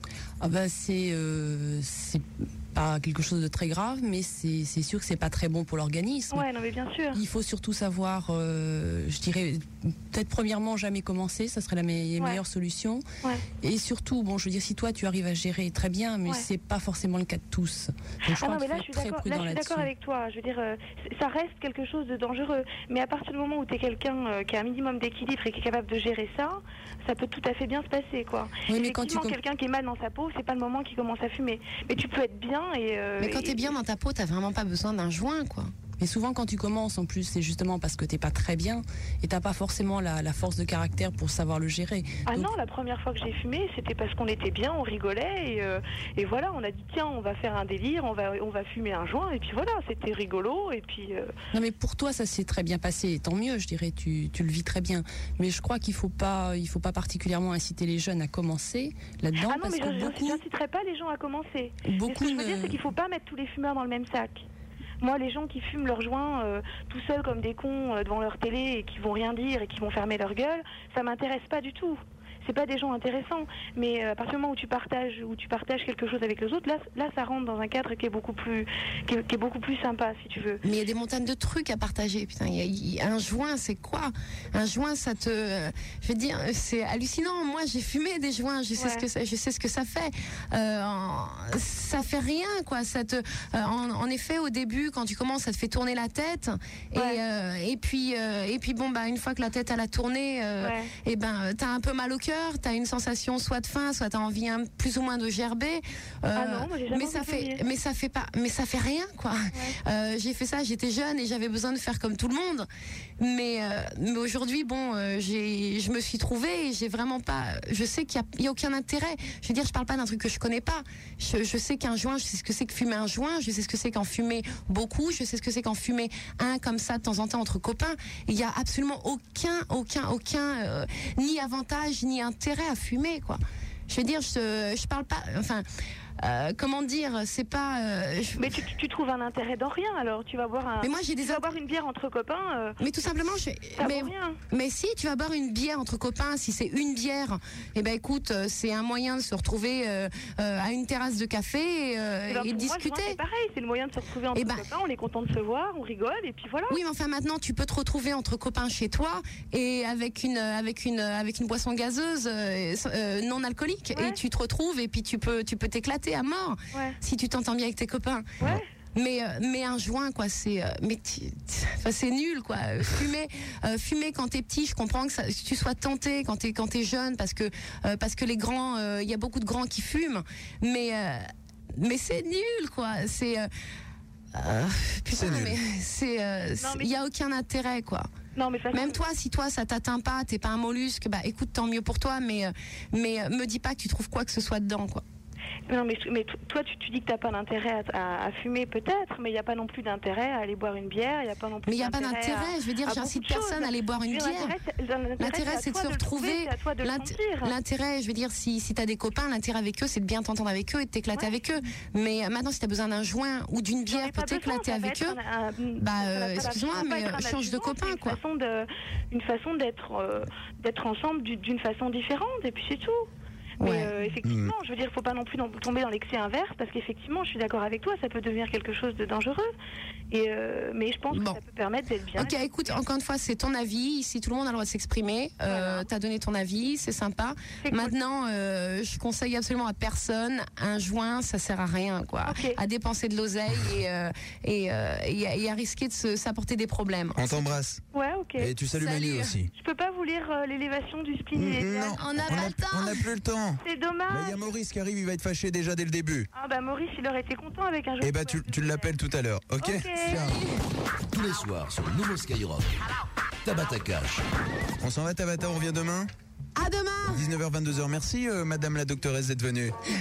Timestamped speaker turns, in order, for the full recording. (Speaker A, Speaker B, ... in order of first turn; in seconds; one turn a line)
Speaker A: 0.4-6.5
Speaker B: 6.3-7.2
Speaker A: 7.1-13.0
Speaker A: 13.6-19.9
Speaker B: 18.3-33.7
Speaker A: 28.7-29.4
Speaker C: 33.2-35.7
Speaker A: 36.0-42.5
Speaker B: 42.3-51.3
Speaker A: 51.5-60.4
Speaker B: 59.4-64.5
Speaker A: 61.8-62.8
Speaker B: 65.0-80.6
Speaker C: 80.6-112.7
Speaker B: 88.8-89.0
Speaker B: 96.9-97.2
Speaker B: 100.6-100.9
Speaker B: 106.3-107.6
Speaker C: 113.2-135.6
Speaker C: 136.2-138.6
Speaker B: 138.4-143.0
Speaker C: 140.8-141.5
Speaker C: 142.8-153.2
Speaker B: 143.8-144.4
Speaker B: 152.3-156.8
Speaker C: 154.3-154.6
Speaker C: 156.7-183.5
Speaker B: 163.9-164.2
Speaker B: 166.7-167.0
Speaker B: 168.4-168.7
Speaker C: 184.3-188.1
Speaker D: 185.1-185.6
Speaker B: 186.6-186.9
Speaker B: 188.3-189.0
Speaker C: 188.7-195.0
Speaker B: 195.7-207.5
Speaker C: 201.6-204.5
Speaker C: 205.2-215.2
Speaker B: 211.1-211.4
Speaker B: 213.9-223.1
Speaker C: 215.8-218.2
Speaker C: 223.6-223.9
Speaker B: 223.6-229.5
Speaker D: 224.2-224.5
Speaker B: 230.1-232.8
Speaker C: 231.1-231.4
Speaker C: 232.1-247.6
Speaker B: 235.4-235.9
Speaker B: 237.6-237.9
Speaker B: 242.2-242.6
Speaker D: 247.2-247.8
Speaker B: 247.9-252.1
Speaker D: 248.4-249.5
Speaker C: 248.7-249.3
Speaker D: 251.3-256.3
Speaker C: 251.9-253.0
Speaker B: 253.6-254.5
Speaker B: 256.3-258.9
Speaker D: 258.0-260.4
Speaker B: 259.6-260.2
Speaker E: 261.1-262.7
Speaker E: 263.4-264.2
Speaker D: 264.8-266.1
Speaker C: 266.6-267.2
Speaker D: 267.1-269.8